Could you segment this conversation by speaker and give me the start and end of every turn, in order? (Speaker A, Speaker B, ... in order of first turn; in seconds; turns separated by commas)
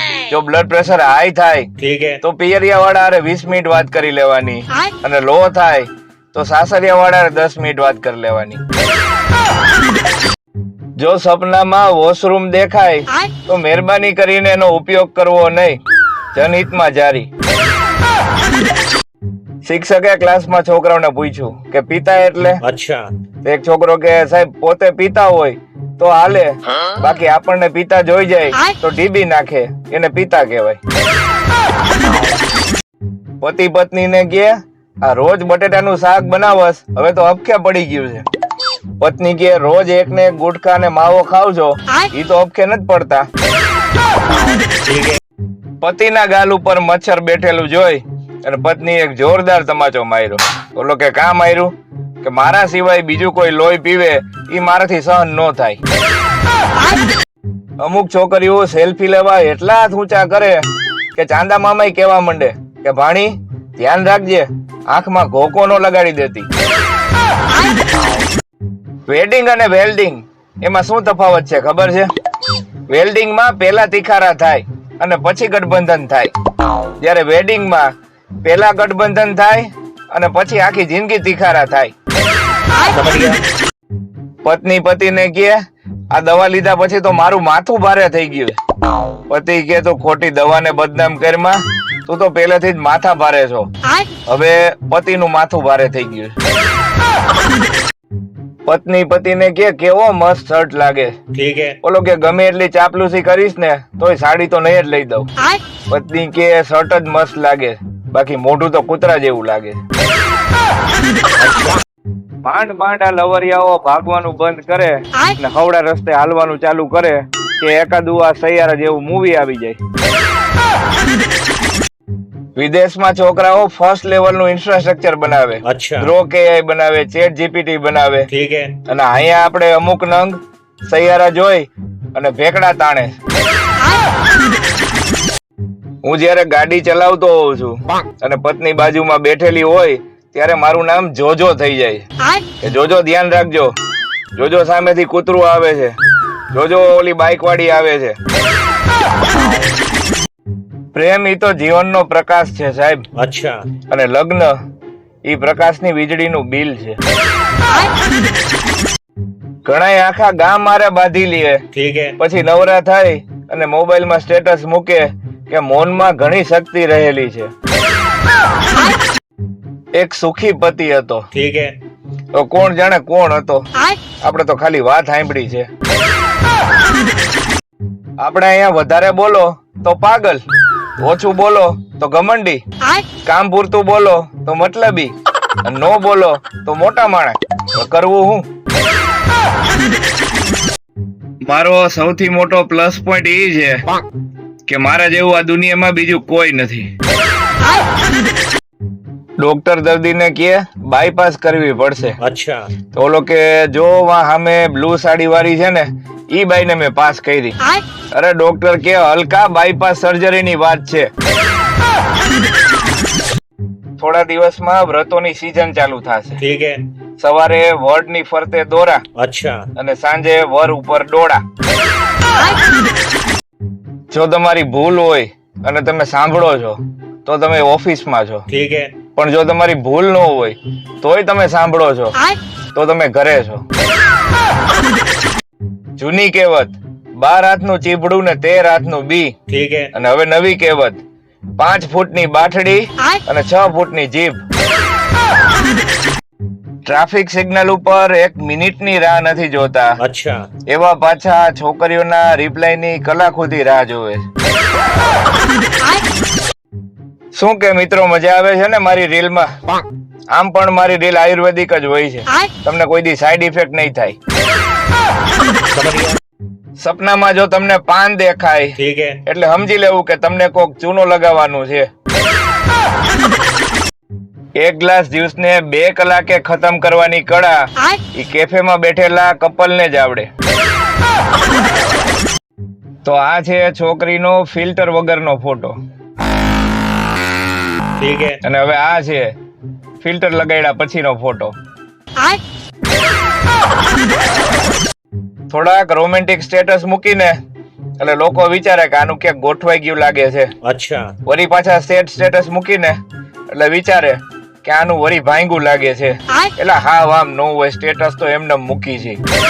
Speaker A: 0.3-1.7, Speaker B: 1.8-2.2, Speaker A: 2.2-8.6, Speaker A: 11.0-15.8, Speaker A: 16.3-17.3, Speaker A: 19.6-22.6, Speaker B: 22.6-23.1, Speaker A: 23.4-30.8, Speaker A: 33.4-38.2, Speaker A: 39.0-43.2, Speaker B: 44.8-45.2, Speaker A: 45.8-51.7, Speaker A: 52.2-55.8, Speaker A: 57.8-66.5, Speaker A: 69.1-72.1, Speaker A: 72.9-76.3, Speaker A: 77.0-77.9, Speaker A: 78.4-81.9, Speaker B: 82.8-83.4, Speaker A: 84.4-85.5, Speaker A: 86.1-88.6, Speaker A: 89.3-93.7, Speaker A: 94.2-96.3, Speaker A: 98.7-101.2, Speaker B: 101.3-101.8, Speaker A: 101.8-105.3, Speaker A: 105.9-109.8, Speaker B: 111.4-111.8, Speaker A: 112.4-119.8, Speaker A: 122.5-128.3, Speaker B: 125.6-126.1, Speaker B: 128.3-128.7, Speaker A: 128.9-133.2, Speaker A: 136.0-142.0, Speaker A: 142.6-143.7, Speaker A: 144.4-145.9, Speaker A: 146.5-148.2, Speaker A: 150.9-153.1, Speaker B: 153.1-153.6, Speaker A: 153.9-154.6, Speaker A: 155.2-157.0, Speaker A: 159.6-161.6, Speaker B: 161.7-162.2, Speaker A: 162.2-167.5, Speaker A: 169.9-171.2, Speaker B: 171.3-171.7, Speaker A: 172.3-173.7, Speaker A: 174.2-175.7, Speaker A: 178.2-180.4, Speaker A: 181.0-182.6, Speaker A: 183.2-185.1, Speaker A: 185.6-188.4, Speaker A: 191.4-193.8, Speaker A: 194.7-196.9, Speaker A: 199.4-202.2, Speaker B: 202.2-202.7, Speaker A: 202.9-207.6, Speaker A: 208.1-211.1, Speaker A: 214.0-216.4, Speaker B: 216.4-216.8, Speaker A: 217.2-219.0, Speaker B: 219.2-219.7, Speaker A: 219.8-221.4, Speaker A: 224.1-228.4, Speaker B: 228.5-228.9, Speaker A: 229.1-232.2, Speaker A: 232.7-233.6, Speaker A: 236.0-239.3, Speaker B: 239.5-239.9, Speaker A: 239.9-241.0, Speaker A: 241.6-244.4, Speaker A: 246.8-250.0, Speaker B: 250.0-250.5, Speaker A: 250.7-254.2, Speaker A: 257.3-259.5, Speaker A: 260.3-264.1, Speaker B: 265.7-266.2, Speaker A: 266.8-271.9, Speaker B: 268.8-269.2, Speaker A: 274.6-280.3, Speaker A: 283.0-285.7, Speaker B: 288.0-288.4, Speaker A: 288.4-289.3, Speaker A: 290.0-291.5, Speaker A: 295.5-297.3, Speaker A: 298.0-300.5, Speaker B: 300.6-301.1, Speaker A: 301.2-303.0, Speaker A: 303.5-309.2